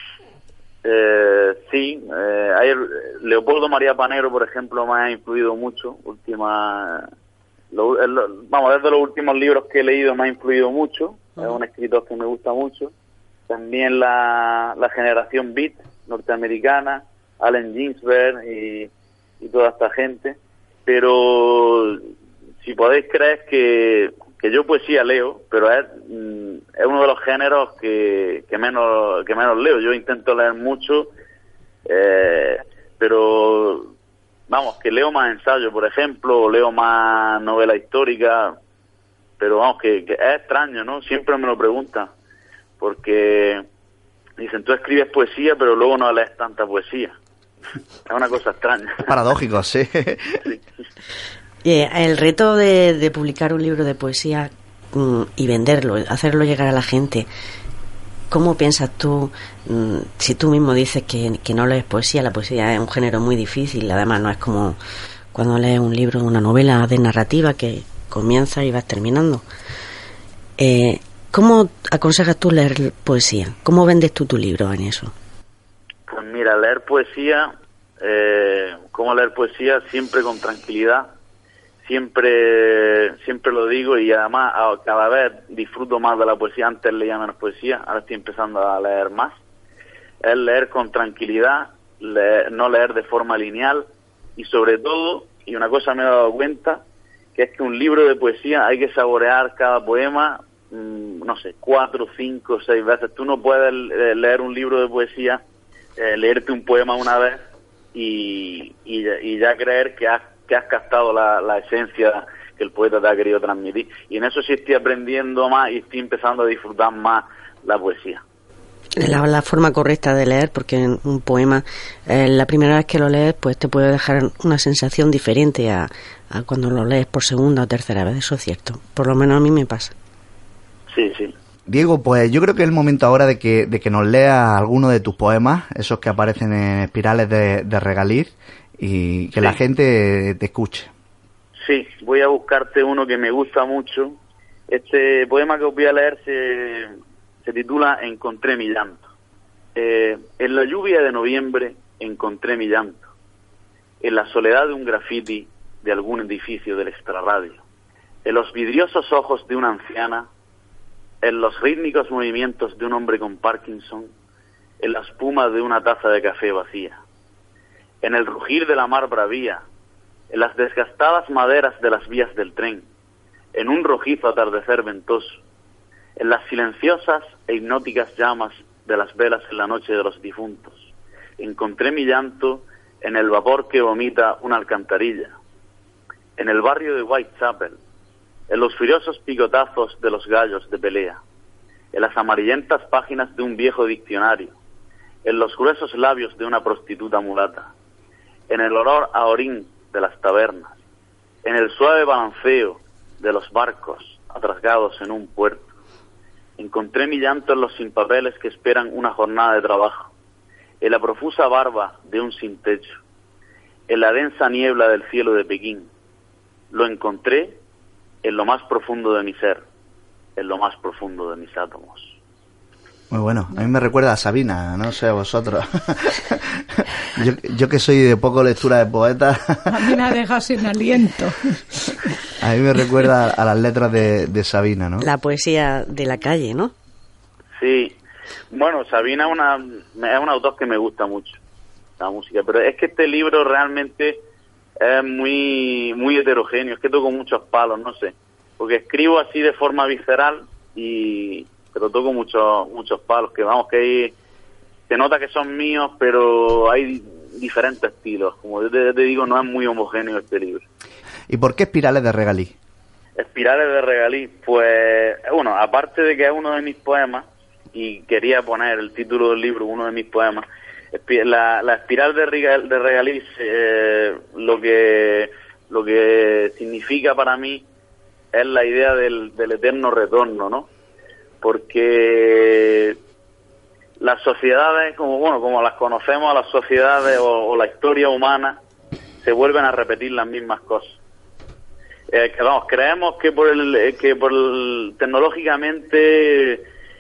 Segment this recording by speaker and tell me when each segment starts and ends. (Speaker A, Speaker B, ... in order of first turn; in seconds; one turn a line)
Speaker A: 0.8-7.1
Speaker A: 7.7-12.9
Speaker A: 13.5-18.9
Speaker A: 19.4-22.1
Speaker A: 22.6-31.1
Speaker A: 31.9-33.9
Speaker A: 34.5-38.6
Speaker A: 39.4-42.1
Speaker A: 42.8-43.7
Speaker A: 44.4-47.2
Speaker A: 48.1-49.1
Speaker B: 49.1-50.5
Speaker C: 51.6-57.3
Speaker C: 58.3-64.8
Speaker C: 65.3-69.4
Speaker C: 70.6-75.1
Speaker A: 76.1-81.1
Speaker A: 81.8-89.3
Speaker A: 90.2-96.8
Speaker A: 97.3-105.4
Speaker A: 106.0-107.4
Speaker A: 107.9-118.2
Speaker C: 119.0-129.9
Speaker A: 130.9-131.3
Speaker B: 131.7-140.9
Speaker A: 141.6-144.2
Speaker A: 144.7-149.1
Speaker A: 149.8-153.1
Speaker A: 154.0-157.6
Speaker A: 158.2-160.3
Speaker A: 161.2-164.1
Speaker A: 164.8-167.0
Speaker A: 168.0-169.6
Speaker A: 170.3-172.9
Speaker A: 173.5-175.4
Speaker A: 176.2-185.4
Speaker A: 186.4-187.8
Speaker A: 188.5-191.2
Speaker A: 191.9-194.6
Speaker A: 195.2-197.7
Speaker A: 198.5-200.8
Speaker A: 201.4-205.7
Speaker A: 206.6-210.1
Speaker A: 210.8-213.0
Speaker A: 213.9-215.9
Speaker A: 216.7-217.6
Speaker A: 218.2-219.6
Speaker A: 220.4-222.2
Speaker B: 223.1-229.9
Speaker D: 229.7-232.0
Speaker B: 232.4-235.1
Speaker C: 235.0-236.7
Speaker A: 237.6-237.9
Speaker A: 238.5-241.4
Speaker A: 242.0-244.2
Speaker A: 244.8-254.2
Speaker A: 254.9-260.6
Speaker B: 261.3-262.5
Speaker A: 263.2-277.7
Speaker A: 278.3-280.7
Speaker A: 281.4-283.0
Speaker A: 284.0-288.6
Speaker A: 289.2-291.0
Speaker A: 292.1-296.7